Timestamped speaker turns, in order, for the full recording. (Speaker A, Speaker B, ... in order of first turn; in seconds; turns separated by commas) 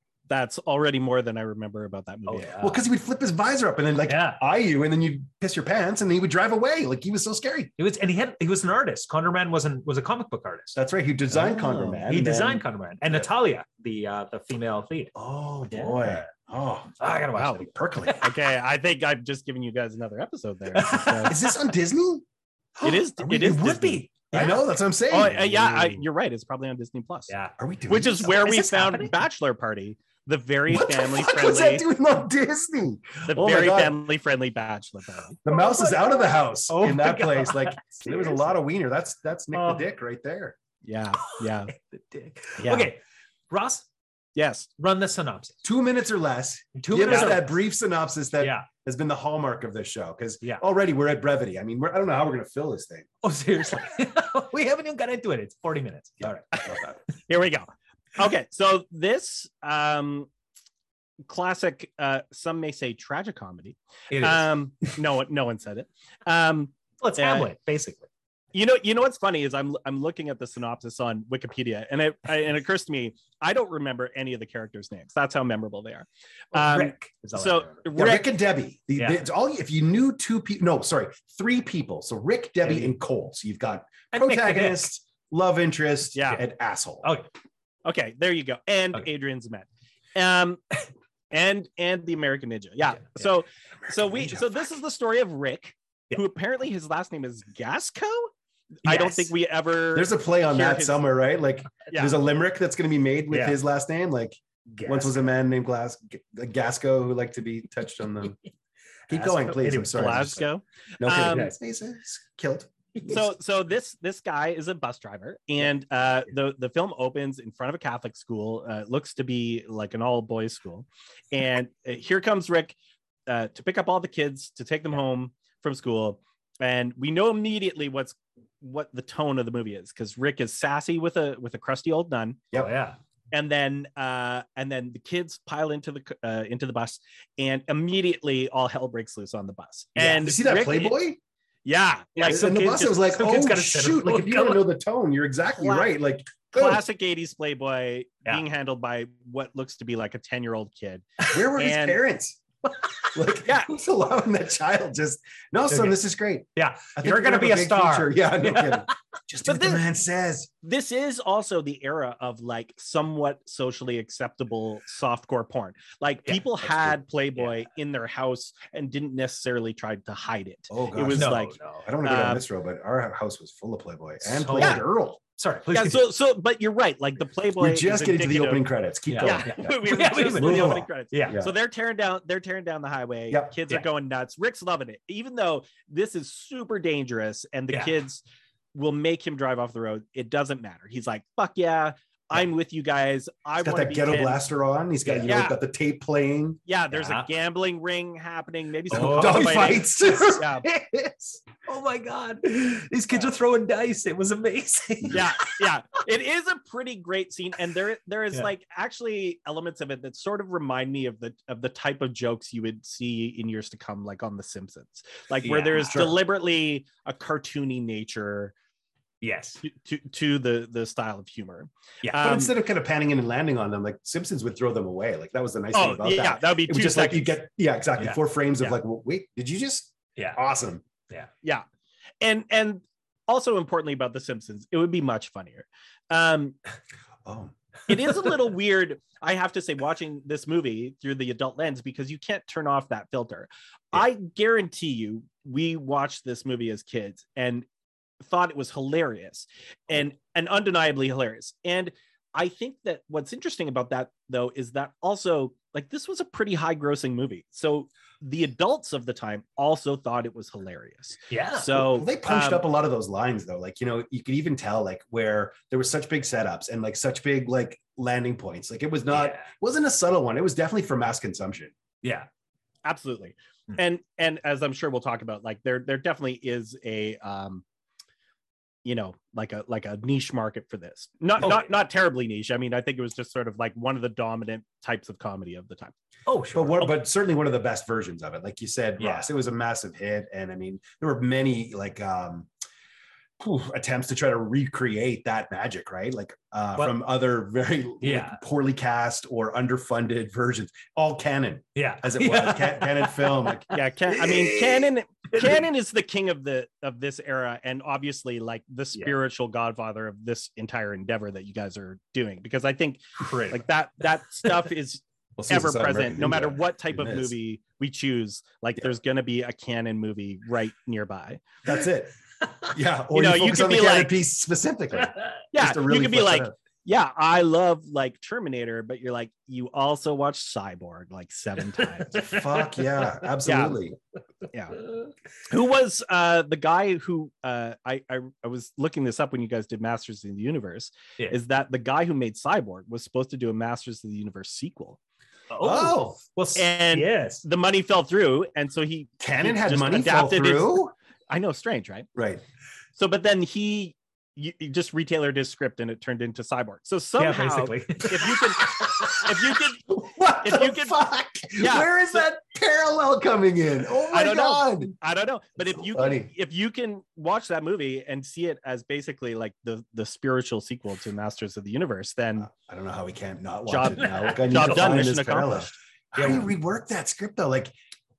Speaker A: 0.3-2.6, Speaker B: 2.3-2.8, Speaker C: 2.6-7.7, Speaker B: 4.1-4.4, Speaker B: 7.8-10.8, Speaker C: 10.7-13.3, Speaker B: 11.3-15.1, Speaker C: 15.1-18.2, Speaker B: 15.7-16.3, Speaker B: 17.0-18.3, Speaker A: 18.1-21.3, Speaker B: 20.7-21.6, Speaker C: 21.2-22.2, Speaker B: 22.8-24.5, Speaker A: 22.8-24.5, Speaker C: 24.3-26.0, Speaker A: 25.1-27.3, Speaker B: 27.3-27.6, Speaker C: 27.6-28.4, Speaker A: 27.9-31.9, Speaker B: 28.1-29.1, Speaker C: 30.7-34.0, Speaker A: 33.3-35.4, Speaker C: 35.4-40.5, Speaker B: 35.5-38.5, Speaker B: 39.5-39.8, Speaker A: 40.8-41.7, Speaker B: 41.3-43.0, Speaker A: 42.6-42.9, Speaker B: 43.5-43.9, Speaker A: 44.4-44.7, Speaker B: 44.8-45.6, Speaker C: 45.6-53.1, Speaker B: 46.8-47.6, Speaker B: 48.4-48.7, Speaker B: 53.2-56.5, Speaker C: 56.2-57.0, Speaker A: 56.5-60.3, Speaker A: 61.3-67.5, Speaker B: 64.1-64.5, Speaker B: 67.0-68.1, Speaker A: 68.5-78.3, Speaker B: 76.5-77.8, Speaker C: 77.9-87.1, Speaker B: 84.1-84.9, Speaker A: 86.1-86.4, Speaker A: 87.8-90.6, Speaker A: 91.3-98.3, Speaker C: 93.9-94.6, Speaker A: 98.8-101.0, Speaker B: 98.9-99.3, Speaker C: 99.9-108.4, Speaker B: 103.3-103.6, Speaker B: 104.7-105.2, Speaker B: 109.1-110.5, Speaker C: 109.1-110.4, Speaker A: 109.9-111.5, Speaker C: 111.0-113.2, Speaker B: 111.2-111.5, Speaker A: 113.0-122.8, Speaker A: 123.3-132.4, Speaker B: 132.5-133.0, Speaker A: 133.3-141.0, Speaker C: 139.9-141.2, Speaker A: 141.6-143.0, Speaker C: 142.2-146.8, Speaker B: 143.1-144.7, Speaker A: 145.6-145.9, Speaker A: 146.5-152.0, Speaker C: 151.3-152.4, Speaker C: 153.1-160.5, Speaker A: 153.4-153.7, Speaker B: 155.7-156.0, Speaker B: 156.6-158.9, Speaker A: 159.4-159.8, Speaker A: 160.6-172.4, Speaker C: 170.7-175.2, Speaker B: 171.1-171.8, Speaker B: 174.2-174.8, Speaker A: 174.6-174.8, Speaker B: 175.4-176.1, Speaker A: 175.7-178.6, Speaker C: 177.6-181.5, Speaker B: 179.1-181.4, Speaker A: 179.2-188.2, Speaker C: 183.3-183.6, Speaker A: 188.7-194.4, Speaker C: 193.6-196.6, Speaker A: 195.2-195.6, Speaker A: 196.7-200.7, Speaker B: 196.9-197.3, Speaker B: 198.9-199.8, Speaker C: 198.9-201.4, Speaker B: 201.6-205.5, Speaker A: 205.1-218.5, Speaker B: 215.4-216.1, Speaker C: 215.9-216.2, Speaker B: 219.2-219.6, Speaker A: 219.6-222.5, Speaker C: 222.2-230.8, Speaker A: 225.7-227.4, Speaker A: 232.2-236.6, Speaker C: 237.2-237.5, Speaker A: 237.9-247.7, Speaker A: 248.2-262.6, Speaker B: 261.3-261.7, Speaker C: 261.7-271.7, Speaker B: 269.1-269.5, Speaker B: 272.0-272.3, Speaker A: 272.8-277.6, Speaker A: 278.8-285.9, Speaker B: 286.2-287.0, Speaker C: 286.5-292.5, Speaker B: 289.0-289.3, Speaker C: 293.4-303.7, Speaker B: 298.0-298.4, Speaker B: 301.8-303.7, Speaker A: 303.7-321.4, Speaker B: 313.2-313.6, Speaker C: 315.4-317.3, Speaker C: 321.6-326.5, Speaker A: 323.1-324.1, Speaker A: 325.5-332.3, Speaker B: 332.1-333.1, Speaker C: 332.1-334.0, Speaker A: 333.4-333.8, Speaker A: 334.5-334.8, Speaker A: 335.4-345.0, Speaker B: 345.5-347.4, Speaker C: 345.6-346.2, Speaker A: 346.5-352.1, Speaker C: 349.2-350.9, Speaker C: 352.1-352.4, Speaker A: 353.0-361.0, Speaker B: 357.2-359.2, Speaker C: 359.9-364.9, Speaker A: 361.6-362.2, Speaker A: 364.1-372.5, Speaker C: 365.7-366.3, Speaker C: 372.4-377.7, Speaker A: 373.7-375.7, Speaker B: 374.0-375.1, Speaker B: 376.1-376.5